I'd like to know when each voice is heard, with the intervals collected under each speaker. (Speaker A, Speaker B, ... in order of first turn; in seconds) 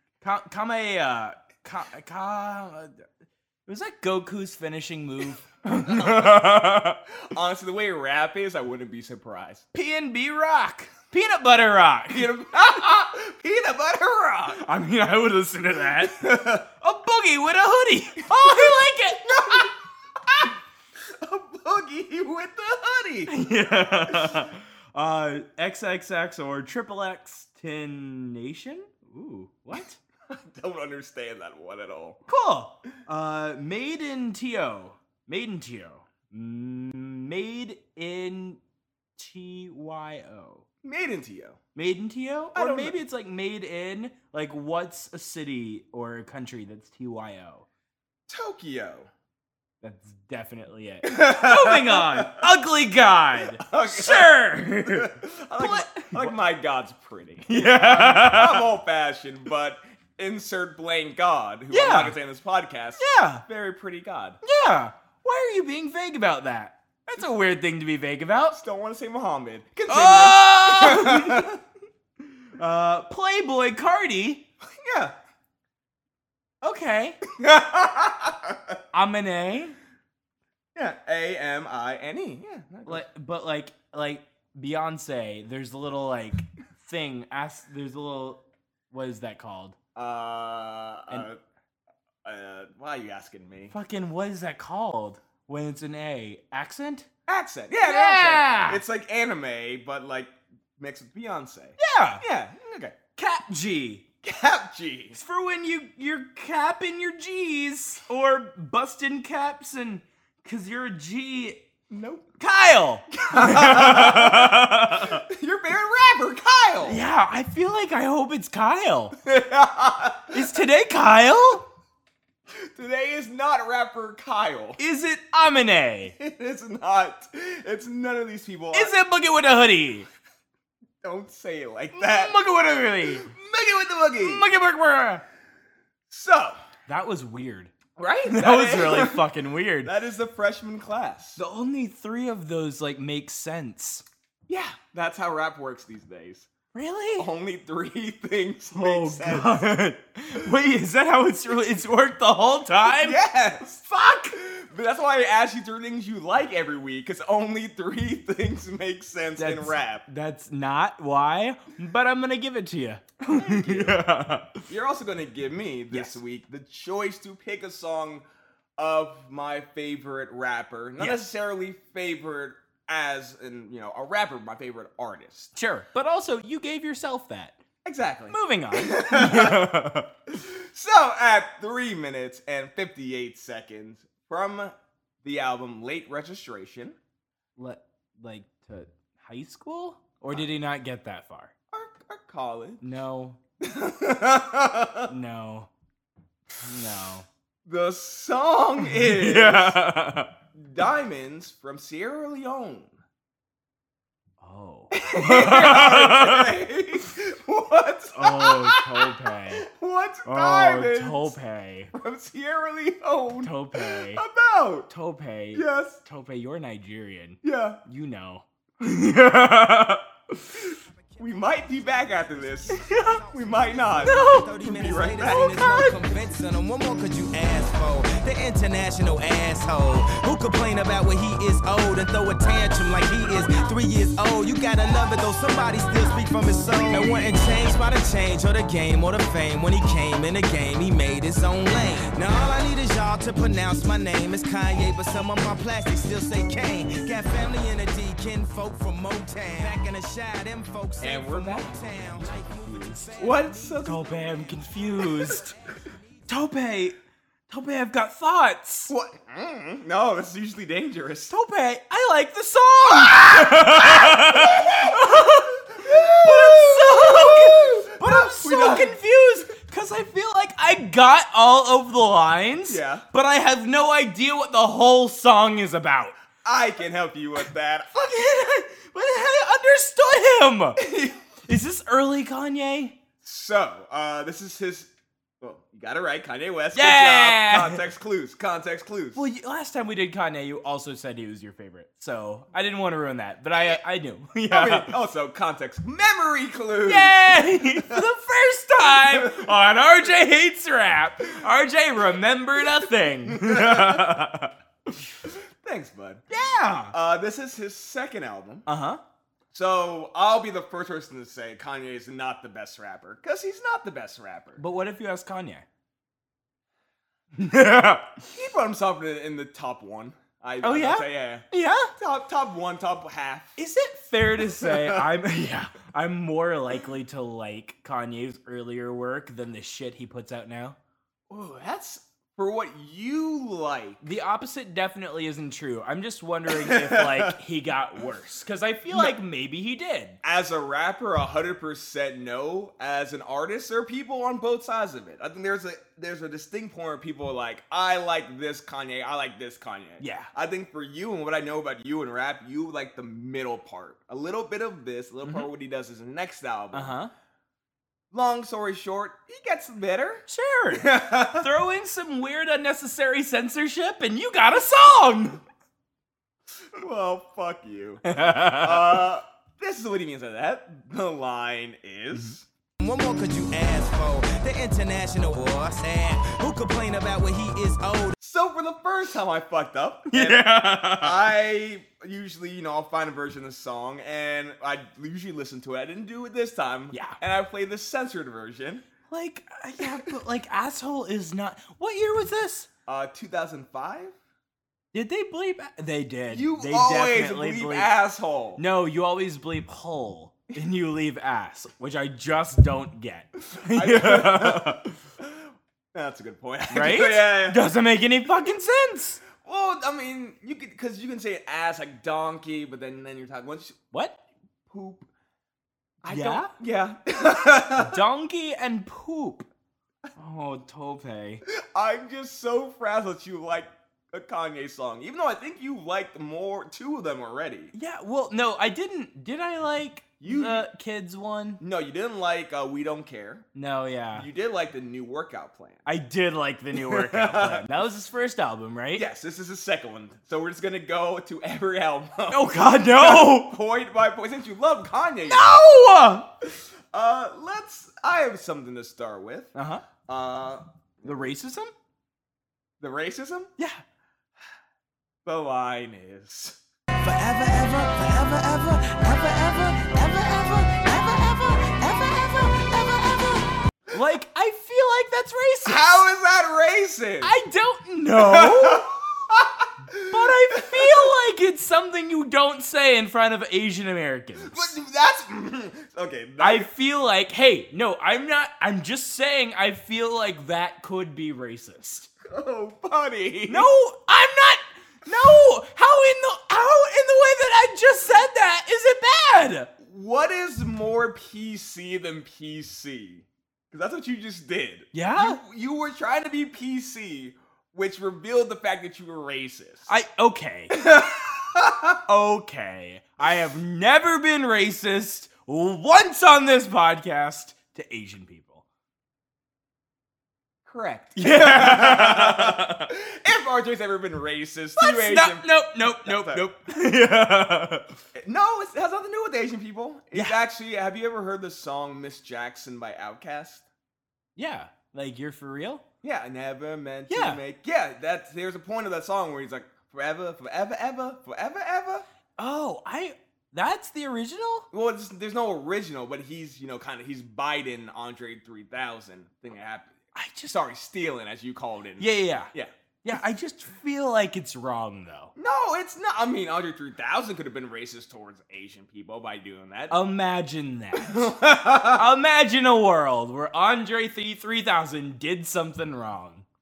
Speaker A: 0.2-3.1, 3.7-7.0, 9.7-12.3, 14.6-19.7, 23.3-30.0, 32.3-38.6, 39.2-40.6, 41.8-47.7, 49.8-56.4, 57.5-58.7, 61.7-62.1, 63.0-63.4, 64.4-68.6, 69.9-71.5, 72.5-74.5, 76.6-77.2, 78.9-79.8, 82.9-89.8, 93.7-97.1, 97.8-98.8, 101.8-102.2, 103.2-104.0, 105.2-111.7, 112.4-115.2, 116.8-119.2, 120.3-121.7, 124.8-126.2, 128.7-130.1, 131.9-133.3, 134.2-135.2, 136.9-137.7, 138.2-139.9, 141.4-144.1, 146.7-147.3, 148.7-153.2, 159.4-164.7, 165.9-166.2, 171.0-171.3, 175.6-177.6, 178.3-180.1, 187.6-191.5, 192.8-193.4, 195.1-195.7, 196.6-197.3, 198.9-200.3, 204.4-206.5, 208.1-209.7, 210.2-211.9, 213.4-214.2, 214.9-220.5, 222.7-223.2, 224.0-224.6, 225.3-226.0, 252.2-253.3, 253.8-255.5, 256.3-257.0, 257.5-258.9, 261.3-276.2, 277.9-280.8, 281.4-283.0, 286.7-287.8, 289.1-294.9, 296.9-304.5, 306.3-306.9, 308.7-309.0, 314.6-315.7, 317.4-318.2, 320.6-321.9, 323.6-330.8, 334.0-340.2, 350.0-350.3, 356.7-357.1, 360.3-365.4, 368.1-369.0, 380.1-381.2, 386.9-387.2, 389.1-392.7, 394.9-397.9, 398.6-405.0, 406.7-409.2, 413.9-414.2, 416.1-416.5, 417.8-419.5, 420.2-421.4, 427.7-431.6, 433.6-434.3, 435.9-439.1, 442.3-443.6, 445.3-446.3, 449.6-449.8, 451.0-451.7, 457.0-466.0, 467.2-468.9, 470.1-474.8, 476.4-482.1, 483.5-489.7, 494.9-495.4, 499.9-500.8, 502.1-508.6, 511.2-512.9, 514.8-517.9, 520.1-520.4, 524.4-525.8, 527.1-527.4, 532.4-534.7, 540.1-540.6, 542.0-542.5, 543.0-545.3, 549.9-556.5
Speaker B: 5.7-6.7, 7.2-9.7, 12.1-14.6, 16.0-16.6, 18.3-23.3, 23.9-24.5, 30.3-32.2, 40.8-41.6, 42.5-43.0, 48.3-49.1, 51.0-52.5, 53.5-64.4, 68.5-71.6, 74.6-75.1, 77.3-78.8, 80.8-83.1, 90.0-91.4, 92.2-93.7, 97.3-103.0, 104.2-105.2, 111.9-112.3, 113.2-117.0, 119.2-120.6, 122.5-124.8, 126.2-128.9, 131.0-132.3, 133.1-134.5, 136.1-136.6, 138.0-139.2, 139.8-141.4, 144.5-146.5, 147.2-149.7, 152.8-160.1, 163.3-164.0, 164.7-168.2, 168.8-175.5, 177.8-179.7, 180.3-187.0, 191.7-192.9, 193.6-195.1, 197.7-199.8, 200.6-202.9, 204.9-211.4, 211.9-214.9, 215.5-216.0, 217.4-217.8, 221.2-225.6, 251.0-251.7, 253.2-254.2, 255.0-255.4, 258.9-261.4, 262.9-269.0, 272.7-273.1, 276.4-277.9, 280.8-281.2, 283.2-289.3, 294.5-298.0, 298.8-299.6, 303.3-304.1, 305.2-306.2, 306.9-308.7, 309.5-314.6, 318.3-321.4, 322.0-323.6, 324.4-325.1, 331.3-334.0, 336.5-337.4, 338.9-339.2, 340.2-357.0, 358.1-361.5, 366.7-372.5, 378.2-388.9, 392.9-394.1, 396.3-398.6, 403.7-407.6, 409.3-413.8, 414.7-415.1, 416.0-418.0, 421.5-427.7, 430.2-430.7, 431.6-433.5, 434.1-435.8, 436.8-437.7, 438.9-445.6, 446.6-449.5, 450.1-451.1, 452.8-453.5, 455.2-456.6, 465.6-467.3, 468.1-471.1, 474.4-476.7, 482.2-483.7, 489.8-499.9, 500.7-502.0, 510.7-516.5, 518.1-523.6, 526.0-532.1, 534.7-542.7, 545.4-550.0, 551.0-552.1
Speaker C: 222.4-223.3, 224.0-253.4, 372.8-378.2